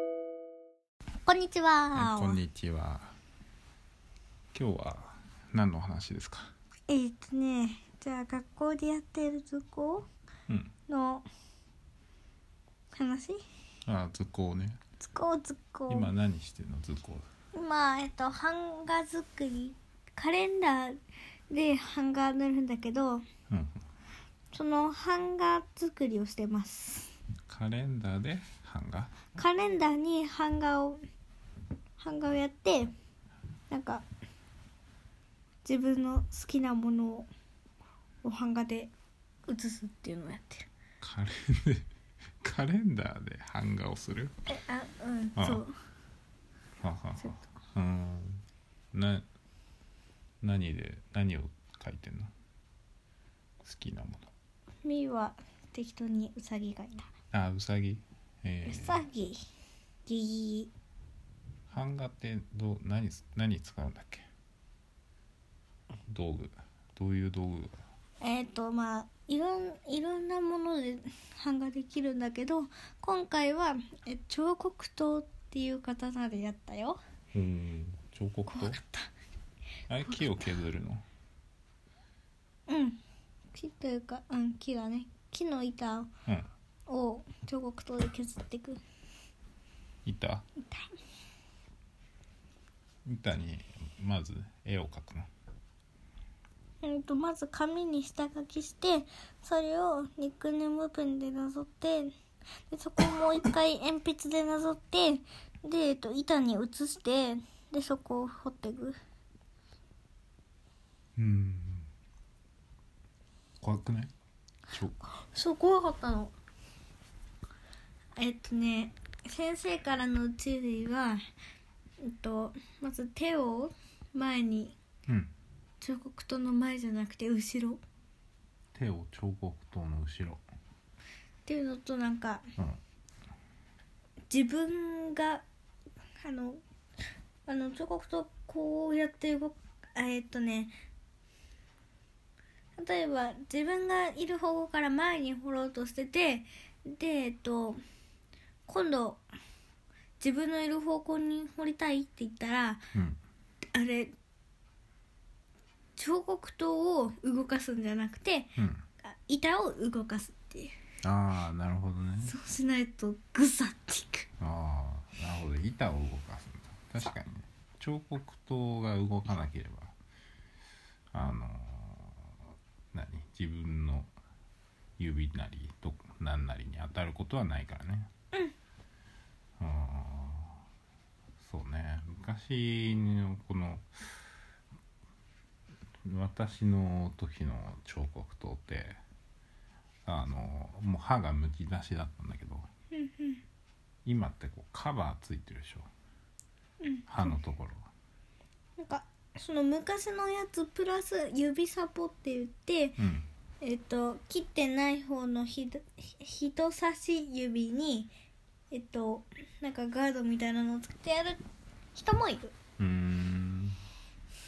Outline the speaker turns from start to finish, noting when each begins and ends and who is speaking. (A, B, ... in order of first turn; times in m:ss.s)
0:01.2-0:02.4 A
0:02.0-0:03.2 B
0:04.5-0:06.5 B
0:06.9-0:10.1 A
0:10.9-0:11.3 A
0:12.9-0:13.4 A
0:13.8-0:14.8 B
0:15.0-0:16.1 A
0:15.9-0:17.3 B
0:17.5-0:21.0 A
0:21.5-0:23.2 A
0:23.5-0:23.8 B
0:24.5-0:27.2 A
0:27.5-0:29.1 B
0:29.4-0:31.0 A
0:32.0-0:32.9 A
0:33.7-0:34.0 A
0:35.6-0:37.3 A
0:38.2-0:38.9 A
0:39.5-0:40.7 A
0:41.0-0:41.9 B
0:42.4-0:44.3 B
0:44.5-0:45.8 A
0:45.4-0:45.6 B
0:46.8-0:49.3 B
0:47.2-0:47.5 A
0:50.4-0:52.3 B
0:53.6-0:54.3 B
0:54.8-0:57.1 A
0:57.3-0:59.0 B
0:58.7-0:59.5 A
1:00.1-1:00.7 A
1:01.7-1:04.3 B
1:06.1-1:07.7 B
1:08.2-1:17.0 A
1:17.3-1:18.8 B
1:18.5-1:19.1 A
1:19.9-1:21.1 B
1:20.0-1:20.4 A
1:22.7-1:23.0 A
1:23.5-1:26.1 A
1:26.9-1:28.8 A
1:30.1-1:30.5 B
1:30.6-1:30.9 A
1:33.0-1:35.3 B
1:36.8-1:42.1 A
1:42.7-1:49.0 A
1:51.2-1:51.9 B
1:53.6-1:54.1 B
1:54.7-1:55.0 B
1:55.1-1:56.3 A
1:58.2-2:01.2 A
2:02.0-2:04.8 A
2:05.1-2:05.3 B
2:05.8-2:07.8 A
2:08.7-2:10.4 B
2:11.5-2:12.5 A
2:14.3-2:15.4 A
2:16.2-2:16.6 A
2:17.5-2:20.8 A
2:22.8-2:27.8 A
2:28.7-2:29.2 A
2:30.2-2:32.8 A
2:32.9-2:33.2 B
2:33.7-2:34.1 A
2:36.0-2:40.8 A
2:38.6-2:38.9 B
2:41.0-2:42.3 B
2:42.2-2:44.3 A
2:44.4-2:49.9 B
2:51.1-2:52.4 B
2:52.9-2:54.1 B
2:55.0-2:58.1 B
2:59.6-3:00.6 B
3:01.4-3:03.9 B
3:06.0-3:09.0 B
3:10.1-3:12.7 B
3:12.9-3:13.4 A
3:14.0-3:15.9 B
3:16.8-3:17.3 A
3:17.1-3:17.9 B
3:18.8-3:23.0 A
3:23.0-3:23.3 B
3:23.6-3:28.1 A
3:28.7-3:31.4 A
3:32.0-3:32.5 A
3:32.8-3:33.8 B